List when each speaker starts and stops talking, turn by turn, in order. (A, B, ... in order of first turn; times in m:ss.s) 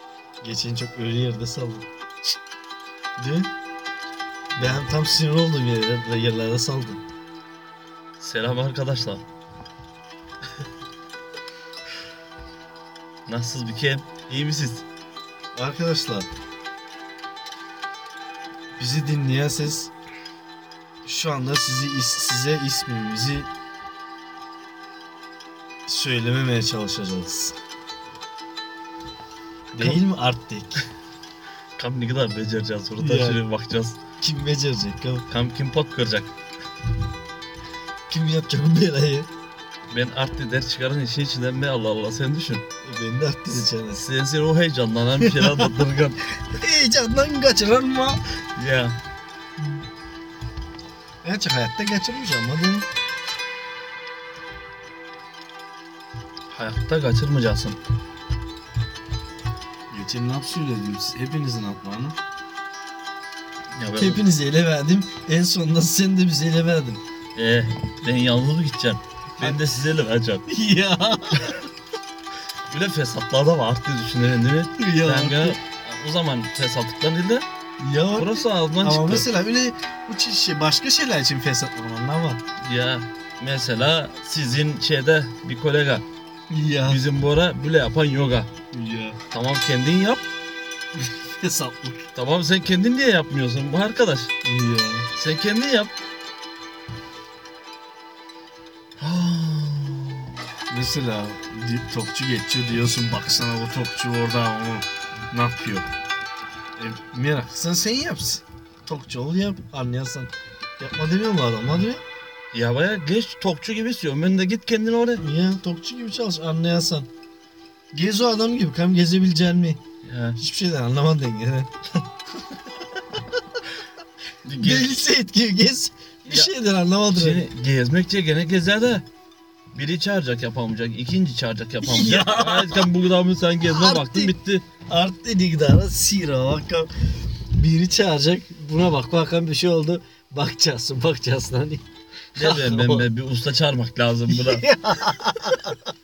0:00.4-0:01.9 A
0:03.2-0:03.5 A
0:04.6-0:07.0 A
0:08.2-0:09.2 B
0:13.3-0:14.8 B
0:15.6-0:16.3 A
0:18.8-0:19.9 A
0:21.0-0:23.5 A
0:25.9-0:27.6 A
0:29.8-0:30.0 B
0:29.8-0:30.9 A
0:31.8-0:34.0 B
0:33.0-0:33.4 A
0:34.2-0:35.3 A
0:35.3-0:36.3 B
0:38.1-0:39.3 A
0:39.9-0:42.6 B
0:42.8-0:44.0 A
0:43.9-0:46.2 B
0:45.2-0:45.7 A
0:46.3-0:48.2 A
0:48.6-0:49.0 B
0:51.2-0:52.9 A
0:56.5-0:57.8 B
0:59.9-1:02.2 A
1:03.8-1:04.2 B
1:04.0-1:07.0 A
1:07.4-1:10.4 B
1:09.4-1:09.7 A
1:10.5-1:11.6 A
1:12.7-1:17.4 B
1:14.8-1:15.6 A
1:17.8-1:22.4 A
1:18.2-1:19.3 B
1:22.6-1:26.0 B
1:26.5-1:27.0 A
1:26.9-1:28.5 B
1:28.7-1:29.2 A
1:29.3-1:30.2 B
1:30.9-1:32.1 A
1:32.2-1:34.3 B
1:34.4-1:35.1 A
1:35.2-1:35.9 B
1:39.0-1:40.4 B
1:40.7-1:45.9 A
1:46.8-1:52.0 A
1:52.5-1:55.2 B
1:55.2-1:57.1 A
1:57.9-1:59.8 A
2:00.0-2:00.4 B
2:00.4-2:01.7 A
2:04.4-2:04.9 B
2:04.6-2:07.4 A
2:06.3-2:06.5 B
2:07.1-2:09.0 B
2:09.7-2:14.6 B
2:11.8-2:12.9 A
2:13.6-2:14.3 A
2:14.9-2:21.8 A
2:22.4-2:24.7 B
2:22.4-2:23.0 A
2:24.3-2:25.8 A